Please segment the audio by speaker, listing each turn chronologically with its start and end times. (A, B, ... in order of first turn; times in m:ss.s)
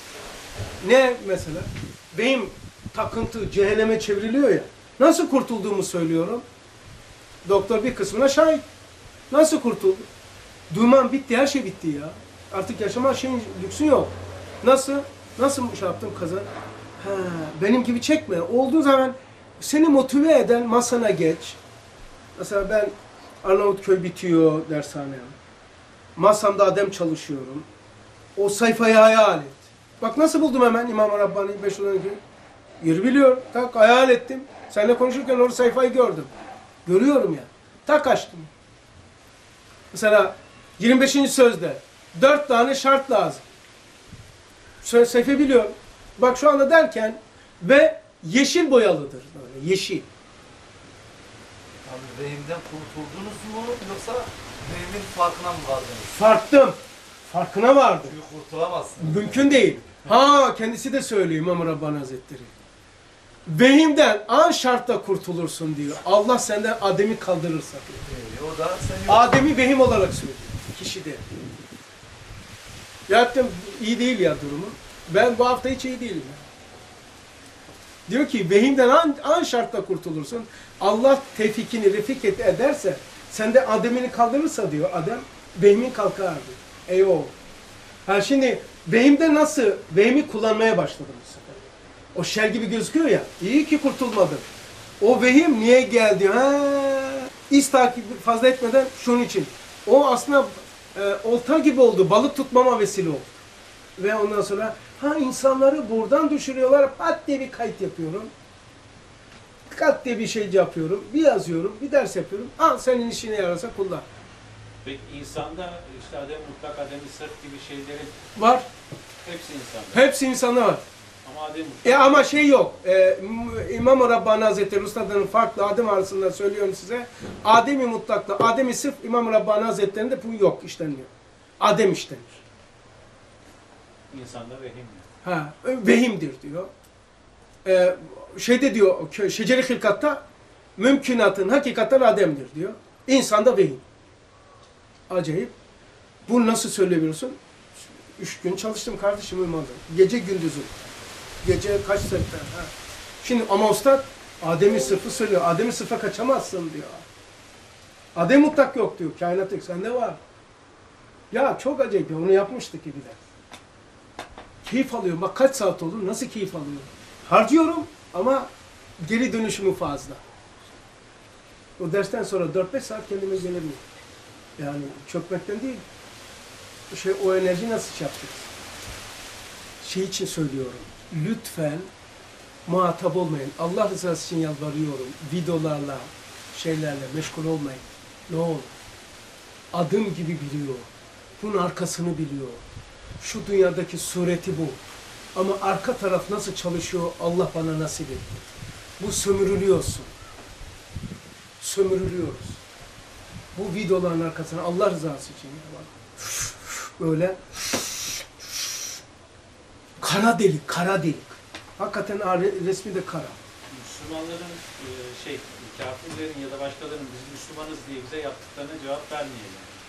0:00.8-0:06.4 A
0:07.4-0:08.6 A
0:09.3-0:10.1 A
0:10.7-0:21.6 A
0:22.4-0:25.3 A
0:26.2-0:27.7 A
0:28.4-0:32.2 A
0:32.8-0:36.3 A
0:36.8-0:38.5 A
0:39.9-0:43.4 A
0:44.8-0:50.0 A
0:51.8-0:56.2 B
0:56.1-0:56.8 A
0:57.3-0:58.2 A
0:58.0-0:59.7 B
0:59.0-1:02.5 A
1:03.5-1:08.0 A
1:08.0-1:09.4 B
1:09.1-1:11.2 A
1:13.1-1:16.4 A
1:18.1-1:27.3 A
1:28.0-1:31.6 A
1:32.1-1:34.4 A
1:35.0-1:43.4 A
1:44.0-1:48.3 A
1:49.7-1:54.0 A
1:54.8-1:58.2 C
1:58.4-1:58.6 A
1:59.2-2:00.0 C
1:59.9-2:00.8 A
2:01.2-2:02.5 C
2:01.8-2:12.4 A
2:14.1-2:15.0 C
2:15.2-2:16.7 A
2:17.6-2:20.2 A
2:20.8-2:23.8 A
2:25.1-2:25.5 A
2:26.3-2:27.4 A
2:28.2-2:30.8 A
2:31.4-2:37.0 A
2:38.1-2:40.2 A
2:41.3-2:43.2 A
2:44.6-2:50.2 A
2:51.8-2:53.8 A
2:54.6-2:55.8 A
2:56.9-2:58.5 A
2:59.8-3:01.9 A
3:02.6-3:08.7 A
3:09.7-3:12.6 A
3:13.2-3:14.8 A
3:15.3-3:18.4 A
3:19.0-3:20.1 A
3:21.6-3:22.6 A
3:23.5-3:28.9 A
3:30.0-3:33.4 A
3:33.7-3:39.8 C